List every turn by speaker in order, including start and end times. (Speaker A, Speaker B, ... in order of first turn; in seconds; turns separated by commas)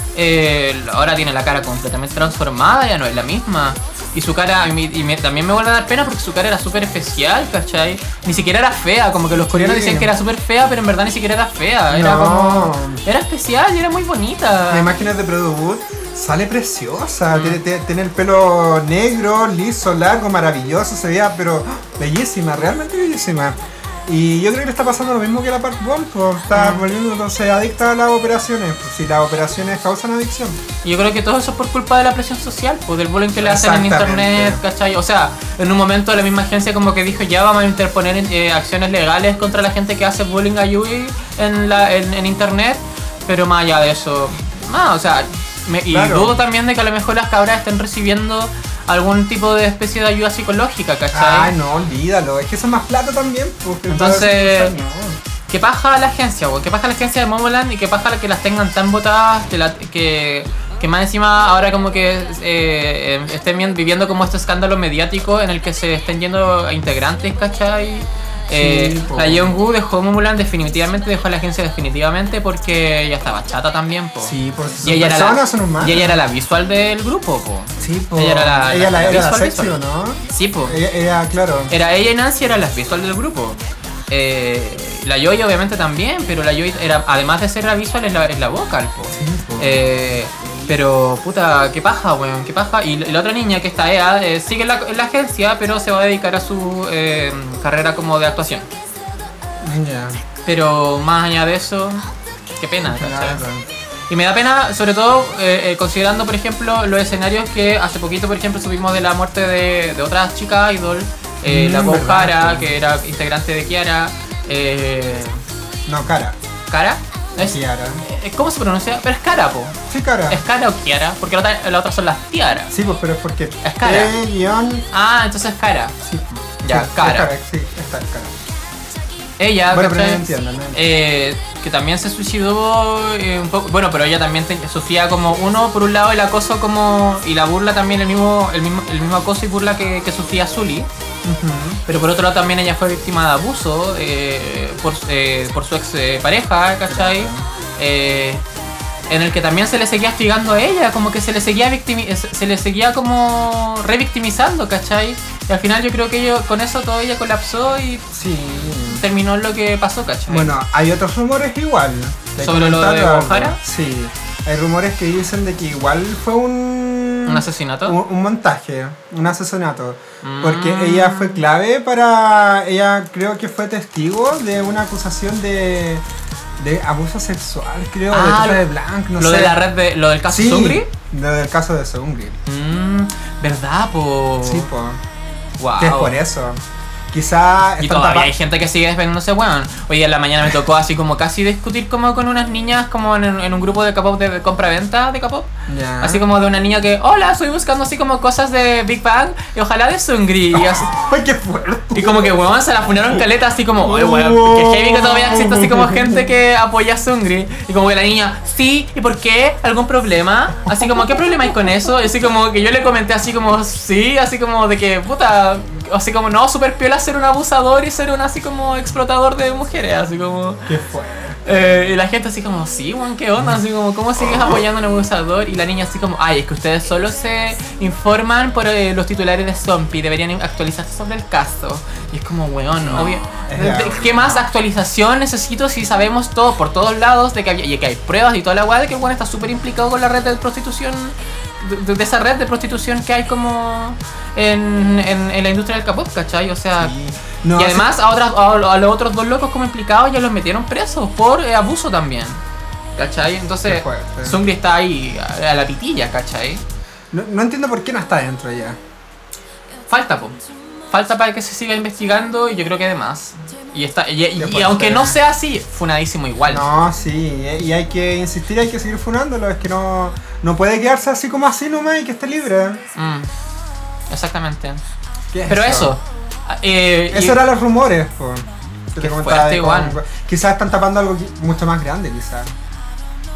Speaker A: 0.1-14.9, Speaker B: 9.5-10.1, Speaker B: 11.9-13.0, Speaker B: 14.7-30.6, Speaker A: 17.3-17.6, Speaker A: 26.5-26.8, Speaker A: 30.8-51.5, Speaker B: 33.4-34.6, Speaker B: 45.9-46.4, Speaker B: 51.1-55.2, Speaker A: 53.9-54.7, Speaker A: 55.5-79.7, Speaker B: 68.5-69.5, Speaker B: 74.2-76.2, Speaker B: 77.8-81.7, Speaker A: 80.3-80.8, Speaker A: 81.7-83.6, Speaker A: 84.1-98.7, Speaker B: 89.1-89.9, Speaker B: 99.6-100.2, Speaker A: 100.5-102.0, Speaker A: 102.6-103.4, Speaker B: 102.8-103.6, Speaker A: 104.1-115.4, Speaker B: 111.4-112.8, Speaker B: 115.9-116.3, Speaker A: 116.7-119.8, Speaker B: 117.4-118.0, Speaker B: 119.9-120.4, Speaker A: 120.3-122.7, Speaker B: 122.7-124.8, Speaker A: 123.6-124.1, Speaker A: 124.9-125.9, Speaker B: 126.0-128.4, Speaker A: 126.6-127.3, Speaker A: 129.4-140.9, Speaker B: 129.7-130.8, Speaker B: 141.2-141.8, Speaker A: 141.9-148.4, Speaker B: 146.9-147.4, Speaker A: 149.1-158.0, Speaker B: 158.1-159.0, Speaker A: 158.9-160.5, Speaker B: 160.3-176.0, Speaker A: 162.4-163.6, Speaker A: 167.2-168.0, Speaker A: 170.2-171.4, Speaker B: 176.6-179.6, Speaker A: 178.1-178.6, Speaker A: 179.2-180.9, Speaker B: 180.2-182.4, Speaker A: 182.4-184.7, Speaker B: 184.4-185.0, Speaker A: 185.6-186.2, Speaker B: 185.8-186.6, Speaker B: 187.1-188.3, Speaker A: 187.8-195.5, Speaker B: 195.7-196.2, Speaker A: 196.0-200.9, Speaker B: 200.5-202.4, Speaker A: 201.9-220.7, Speaker B: 203.8-206.3, Speaker B: 220.7-221.8, Speaker A: 221.4-246.9, Speaker B: 224.2-224.6, Speaker B: 232.8-234.4, Speaker B: 246.8-247.9, Speaker A: 247.6-252.4, Speaker A: 253.0-256.6, Speaker B: 253.7-254.4, Speaker B: 257.1-258.8, Speaker A: 259.9-260.4, Speaker A: 260.9-266.6, Speaker B: 264.4-265.2, Speaker B: 266.5-272.8, Speaker A: 272.9-273.3, Speaker A: 274.1-274.8, Speaker B: 275.3-275.9, Speaker A: 275.5-277.4, Speaker B: 277.1-282.5, Speaker A: 279.0-280.0